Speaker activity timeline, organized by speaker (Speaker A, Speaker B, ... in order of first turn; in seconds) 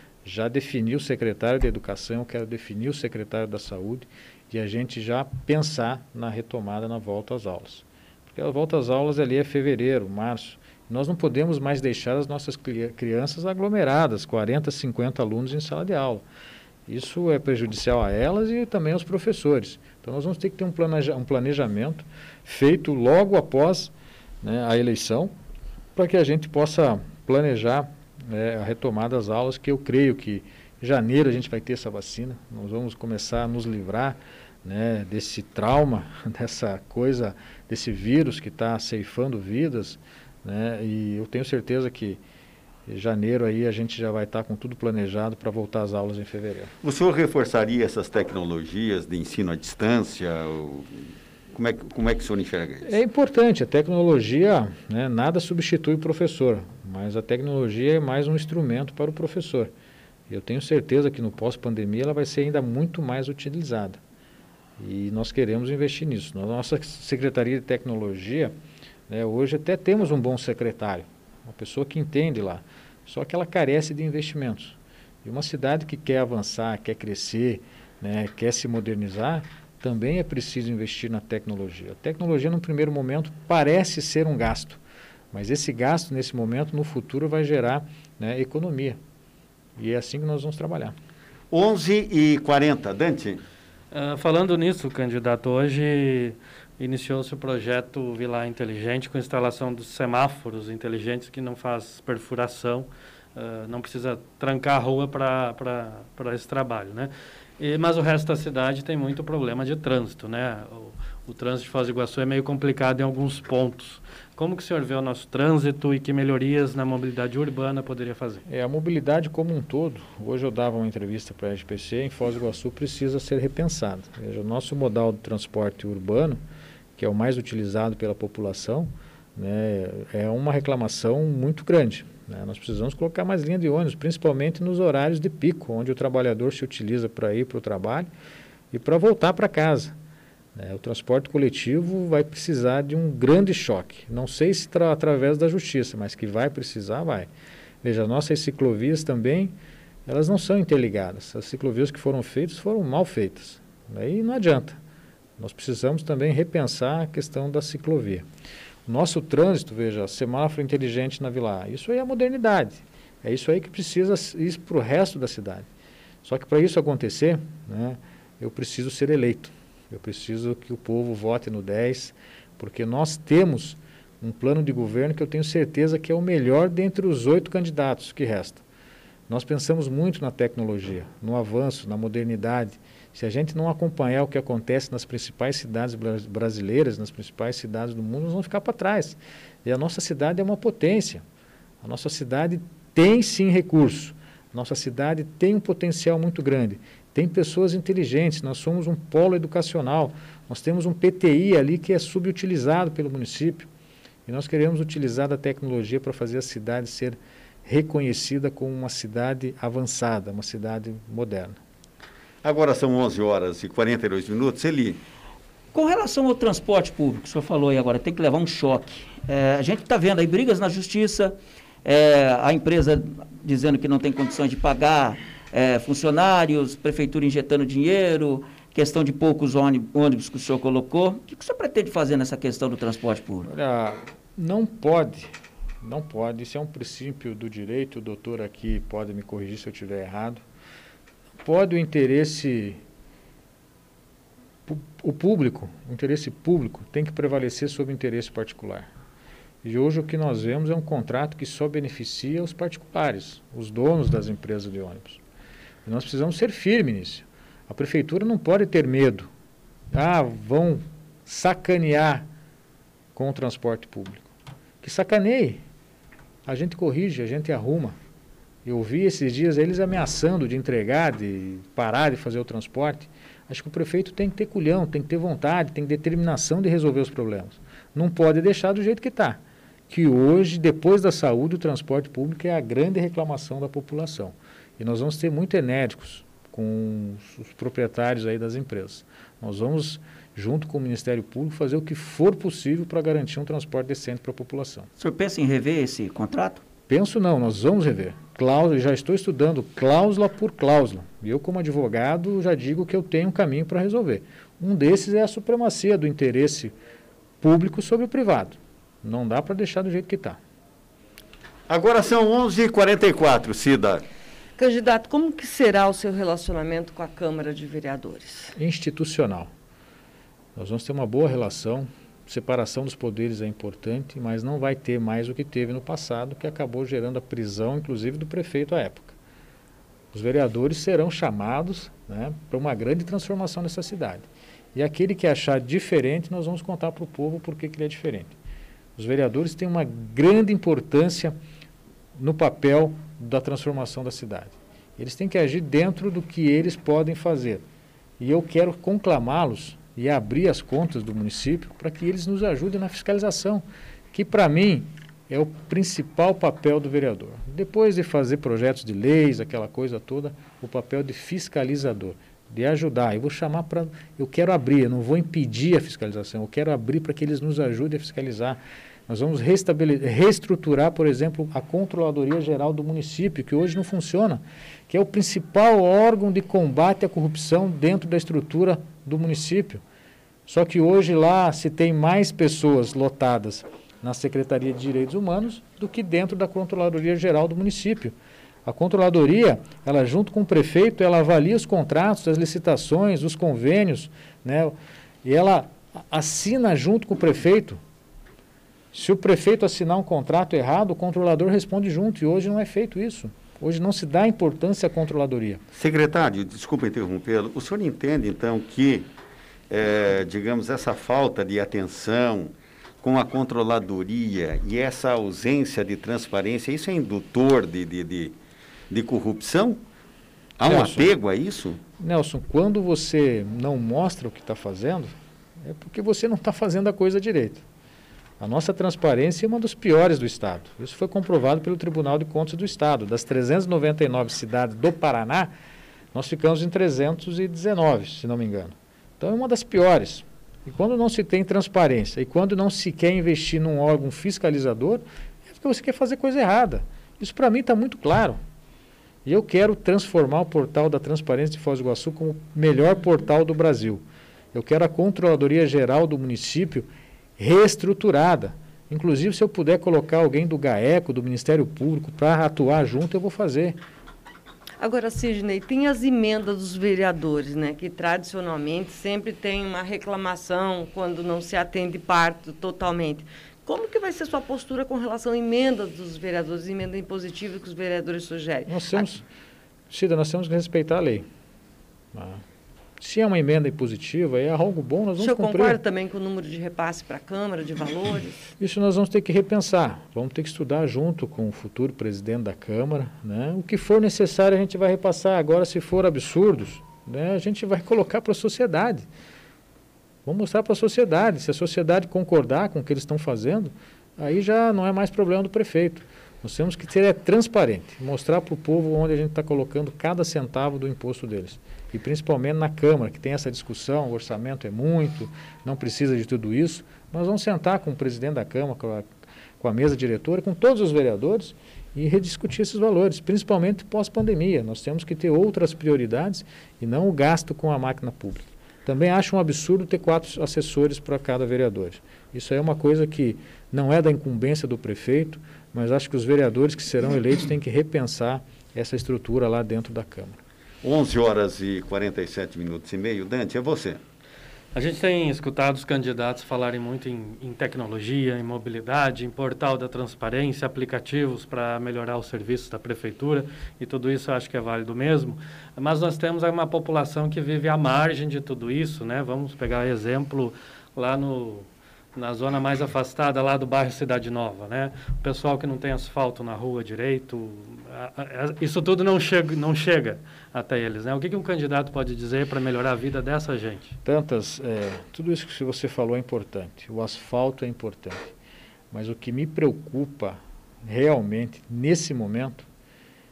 Speaker A: 0.2-16.2, 16.9-23.9, 24.4-25.3, 25.9-42.2, 42.9-46.7, 52.8-59.7, 60.3-64.0, 64.8-68.5, 69.1-84.8, 85.3-89.0, 89.8-90.9, 118.5-126.4, 127.0-138.1, 138.7-139.9, 140.5-147.3, 147.8-149.5, 150.1-154.8, 155.4-158.2, 158.8-165.7, 166.2-178.6, 179.3-191.2, 191.8-203.7, 204.2-211.6, 233.4-240.4, 241.4-242.8, 244.7-248.9, 249.6-255.2, 255.8-259.3, 259.9-262.3, 263.1-264.2, 264.8-265.6, 266.4-268.0, 268.6-294.9, 296.9-306.7, 307.4-310.4, 318.6-319.5, 320.6-329.1, 330.1-338.4, 339.0-341.3, 342.1-347.6, 348.2-379.8, 380.5-388.1, 388.6-397.8, 398.9-405.6, 420.6-421.1, 422.0-427.6, 428.4-435.5, 436.1-448.4, 449.2-454.0, 454.5-463.8, 478.7-479.2, 479.9-481.2, 482.1-482.4, 483.0-485.8, 488.6-499.1, 500.2-519.0, 519.6-540.4, 574.0-578.3, 578.9-582.7
Speaker B: 46.8-53.0, 91.5-93.4, 212.4-215.0, 311.7-314.1, 405.7-409.1, 409.7-418.3, 418.9-419.8, 420.6-421.8, 540.8-544.0
Speaker C: 93.9-118.4, 544.7-574.0
Speaker D: 215.7-233.5, 295.0-296.6
Speaker E: 314.6-318.5, 464.8-479.1, 485.2-488.3